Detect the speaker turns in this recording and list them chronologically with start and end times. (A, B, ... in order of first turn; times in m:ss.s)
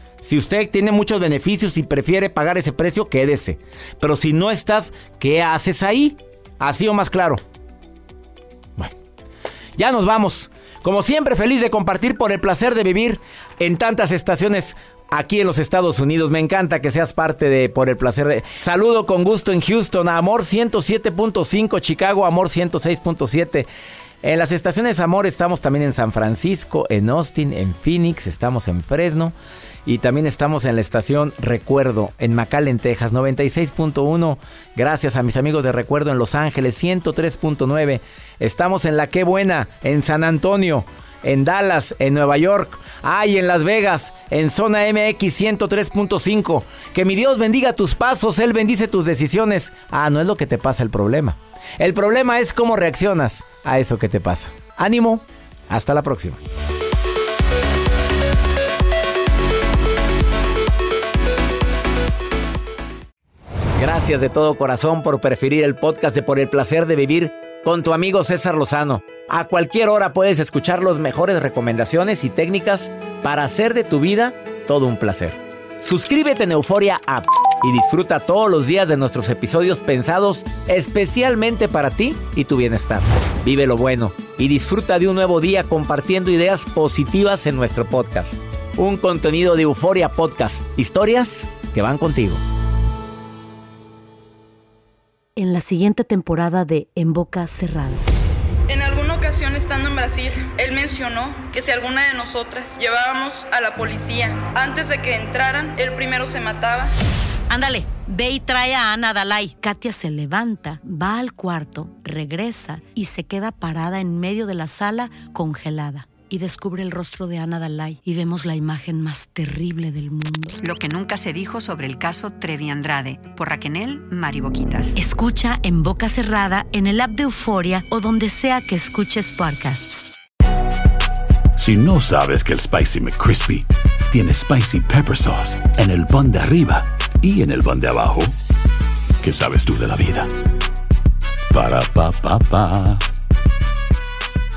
0:00.2-0:07.4 A
0:09.8-0:23.7 A
0:24.2-0:29.3 A
0:29.8-0:56.4 A
1:03.8-1:32.4 A
1:35.4-1:38.0 B
1:38.7-1:46.9 C
1:47.5-2:00.6 B
2:00.6-2:04.9 D
2:04.9-2:10.1 B
2:11.6-2:18.3 E
2:19.2-2:20.3 E
2:21.5-2:23.0 E